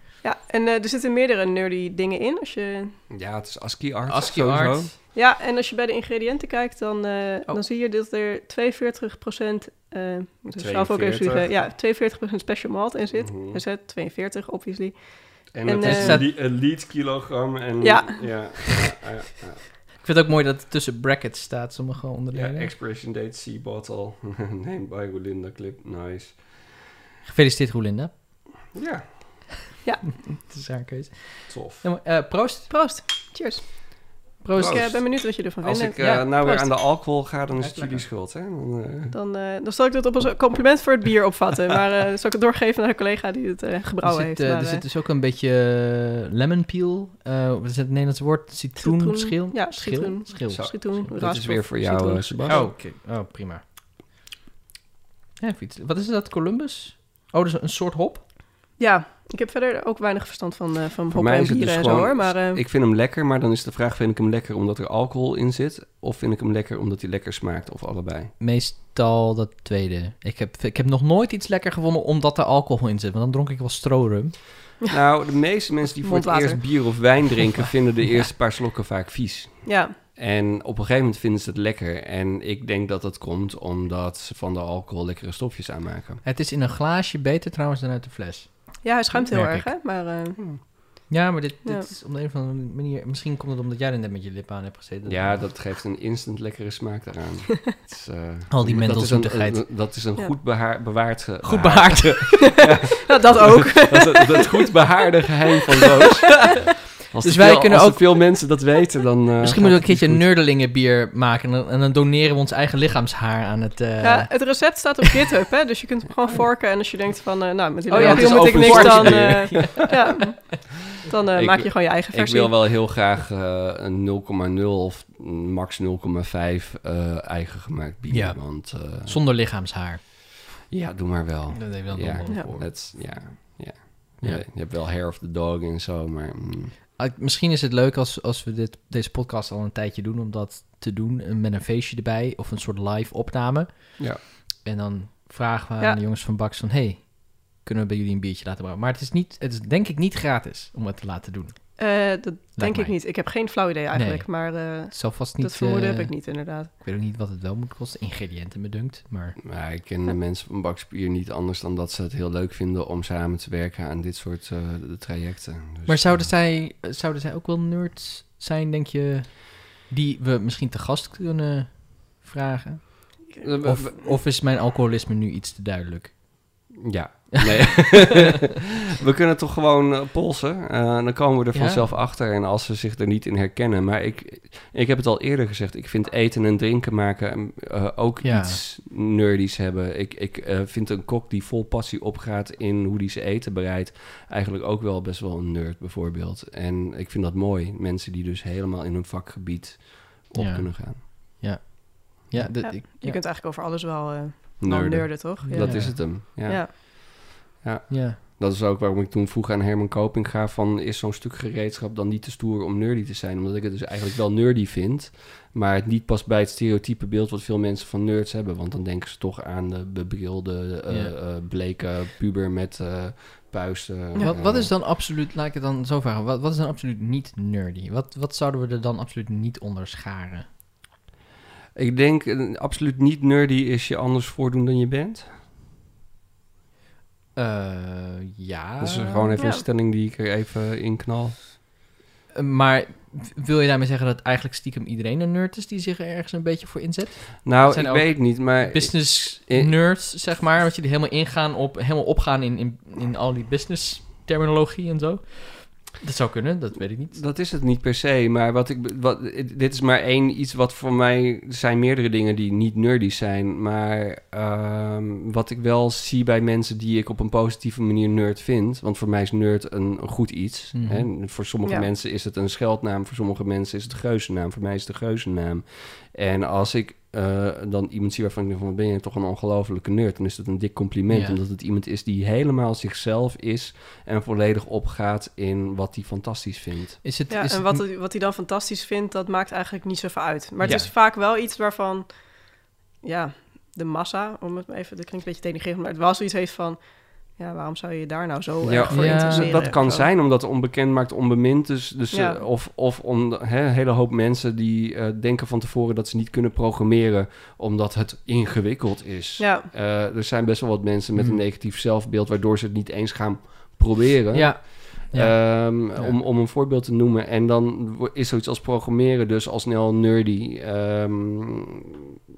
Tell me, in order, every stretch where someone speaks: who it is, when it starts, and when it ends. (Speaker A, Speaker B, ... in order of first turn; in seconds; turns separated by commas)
Speaker A: 0.2-3.0, Speaker B: 3.1-4.9, Speaker C: 4.1-4.9, Speaker A: 5.1-16.2, Speaker B: 10.6-11.6, Speaker B: 13.2-13.6, Speaker B: 15.5-19.7, Speaker C: 15.7-16.3, Speaker A: 17.8-18.7, Speaker C: 20.0-22.7, Speaker B: 22.3-26.7, Speaker C: 27.2-28.1, Speaker B: 28.7-29.4, Speaker C: 30.4-32.7, Speaker B: 31.5-31.8, Speaker A: 32.7-38.0, Speaker C: 34.4-34.9, Speaker B: 34.5-39.1, Speaker A: 39.1-44.9, Speaker C: 44.0-51.1, Speaker A: 48.8-52.7, Speaker B: 50.5-52.6, Speaker C: 52.5-53.6, Speaker C: 55.4-58.2, Speaker A: 58.8-62.6, Speaker B: 61.1-68.3, Speaker C: 68.4-74.4, Speaker B: 74.9-86.2, Speaker A: 75.8-77.1, Speaker A: 79.7-80.0, Speaker C: 86.2-89.7, Speaker A: 88.8-91.1, Speaker C: 91.1-95.6, Speaker A: 91.7-91.9, Speaker B: 95.1-110.3, Speaker C: 98.5-99.7, Speaker C: 101.4-102.6, Speaker A: 102.4-104.7, Speaker C: 107.2-108.5, Speaker C: 109.4-114.8, Speaker A: 114.0-122.6, Speaker C: 117.9-120.2, Speaker B: 117.9-119.9, Speaker B: 121.3-129.2, Speaker C: 128.1-130.0, Speaker B: 130.7-136.8, Speaker C: 131.5-132.7, Speaker C: 137.0-151.8, Speaker A: 151.8-156.7, Speaker C: 152.6-153.2, Speaker C: 153.9-159.4, Speaker B: 159.4-166.3, Speaker C: 165.9-176.7, Speaker B: 173.4-174.0, Speaker B: 176.8-201.0, Speaker C: 177.5-178.1, Speaker C: 181.5-181.9, Speaker C: 188.2-188.6, Speaker C: 200.3-203.2, Speaker A: 202.6-206.7, Speaker B: 204.6-224.7, Speaker C: 205.4-206.0, Speaker C: 207.9-208.2, Speaker C: 220.9-221.1, Speaker C: 224.2-230.5, Speaker B: 231.8-235.3, Speaker C: 237.4-239.4, Speaker B: 238.8-241.3, Speaker A: 239.4-239.7, Speaker C: 242.3-257.2, Speaker B: 247.4-249.8, Speaker B: 257.1-287.0, Speaker C: 270.7-271.1, Speaker A: 271.6-271.9, Speaker C: 281.1-281.4, Speaker C: 287.0-287.9, Speaker A: 287.3-300.1, Speaker C: 290.6-290.9, Speaker B: 298.6-322.0, Speaker C: 298.9-299.7, Speaker A: 302.1-302.4, Speaker A: 309.4-309.7, Speaker C: 311.2-311.4, Speaker C: 314.3-316.2